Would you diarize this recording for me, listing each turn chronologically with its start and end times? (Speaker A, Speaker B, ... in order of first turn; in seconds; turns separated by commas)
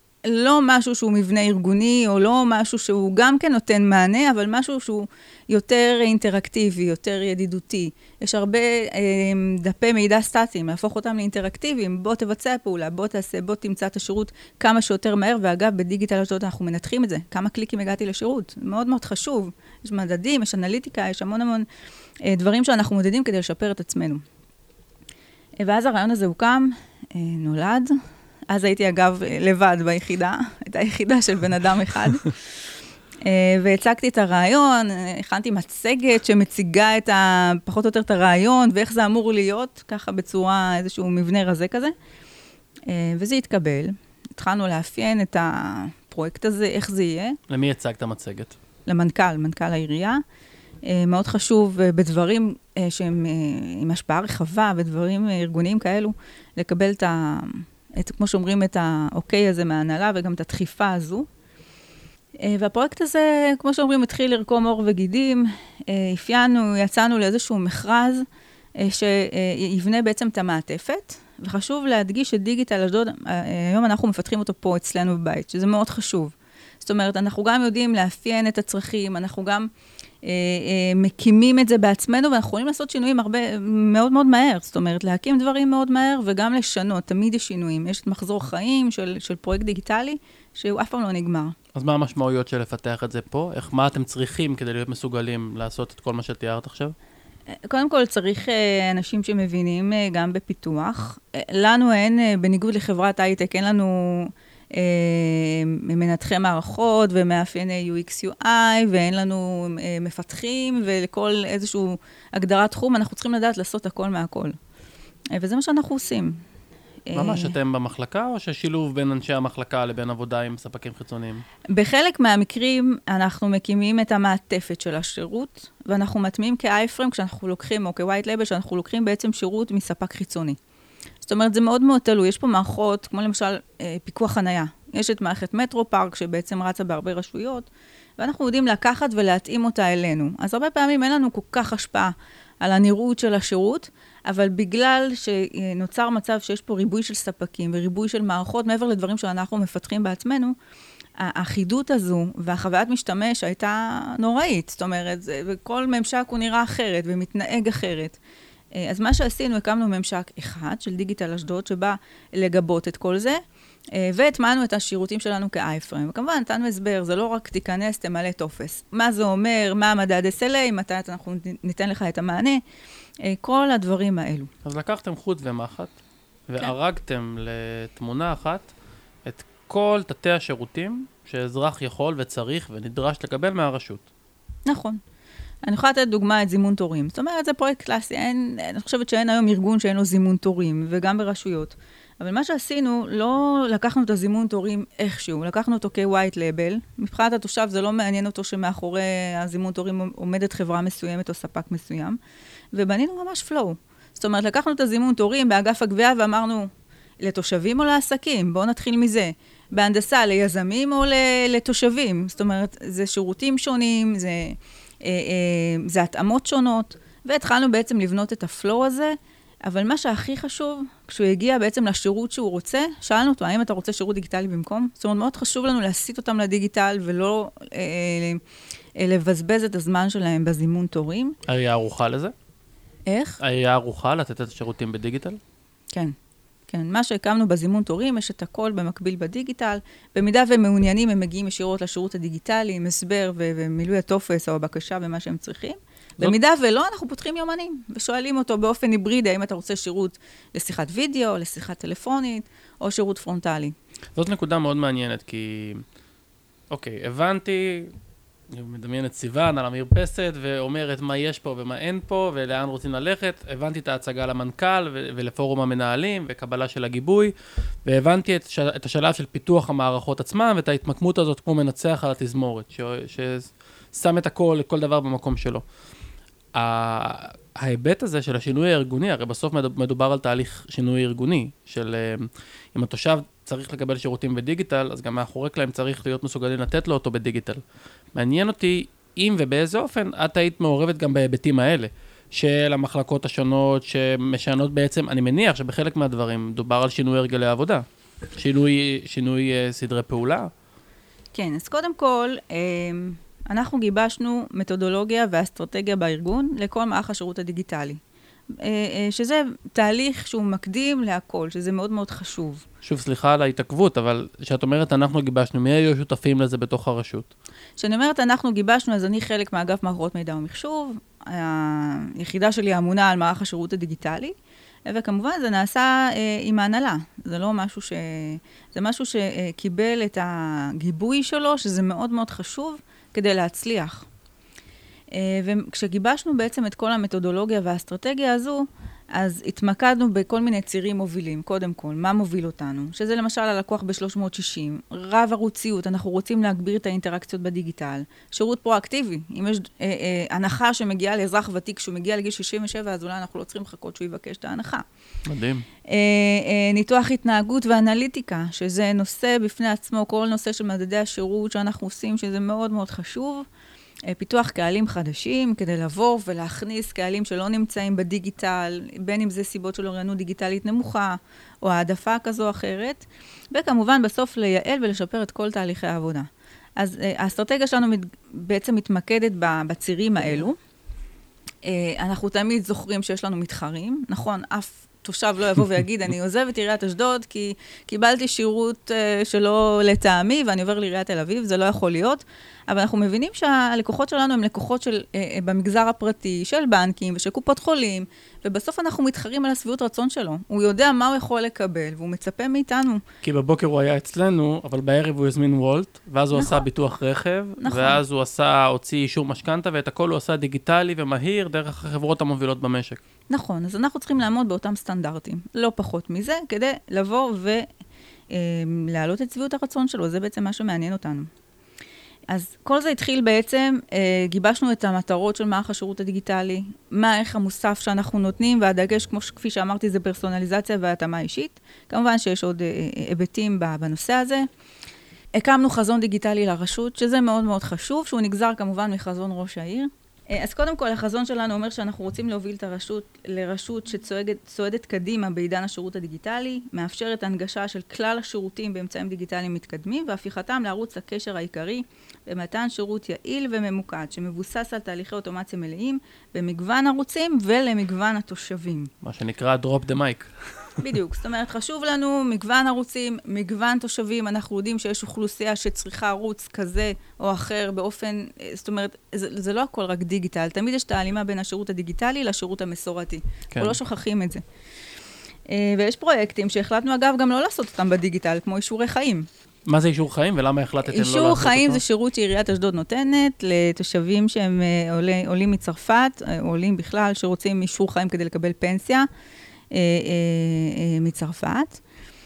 Speaker A: 0.2-21.7, Speaker A: 22.2-24.2, Speaker A: 25.6-27.9, Speaker A: 28.5-32.3, Speaker A: 33.2-41.9, Speaker A: 42.9-47.4, Speaker B: 47.5-48.5, Speaker A: 48.9-50.2, Speaker A: 50.8-61.3, Speaker A: 62.4-68.2, Speaker A: 68.8-79.7, Speaker A: 80.2-91.5, Speaker B: 91.7-96.9, Speaker A: 97.5-114.5, Speaker A: 115.3-116.4, Speaker A: 117.1-117.5, Speaker B: 117.1-121.4, Speaker A: 121.7-130.6, Speaker A: 131.2-137.7, Speaker A: 138.2-150.6, Speaker A: 151.2-158.2, Speaker A: 158.7-163.4, Speaker A: 163.9-172.6, Speaker A: 173.2-174.5, Speaker B: 174.6-175.9, Speaker B: 176.5-178.7, Speaker B: 179.2-184.1, Speaker A: 184.7-185.0, Speaker A: 185.6-202.2, Speaker A: 202.7-206.7, Speaker A: 207.2-228.4, Speaker A: 229.0-231.3, Speaker B: 231.5-232.3, Speaker A: 233.1-233.4, Speaker B: 233.4-235.4, Speaker A: 236.7-253.7, Speaker B: 254.1-255.8, Speaker B: 256.7-257.9, Speaker B: 258.5-267.3, Speaker B: 267.8-275.6, Speaker B: 276.5-287.6, Speaker B: 288.1-297.8, Speaker B: 298.4-300.5, Speaker A: 301.3-308.0, Speaker A: 308.5-312.6, Speaker B: 312.8-317.3, Speaker A: 317.8-324.3, Speaker A: 324.9-334.1, Speaker A: 335.1-354.9, Speaker B: 355.2-355.6, Speaker A: 355.8-363.4, Speaker A: 364.1-380.6, Speaker A: 381.6-403.0, Speaker B: 403.2-413.0, Speaker A: 406.3-406.6, Speaker A: 407.6-408.0, Speaker A: 413.3-417.6, Speaker A: 418.3-421.3, Speaker A: 422.3-434.5, Speaker A: 435.3-458.9, Speaker B: 459.0-460.8, Speaker A: 460.8-474.4, Speaker A: 475.5-479.3, Speaker B: 479.7-481.8, Speaker A: 480.9-489.1, Speaker A: 489.7-491.8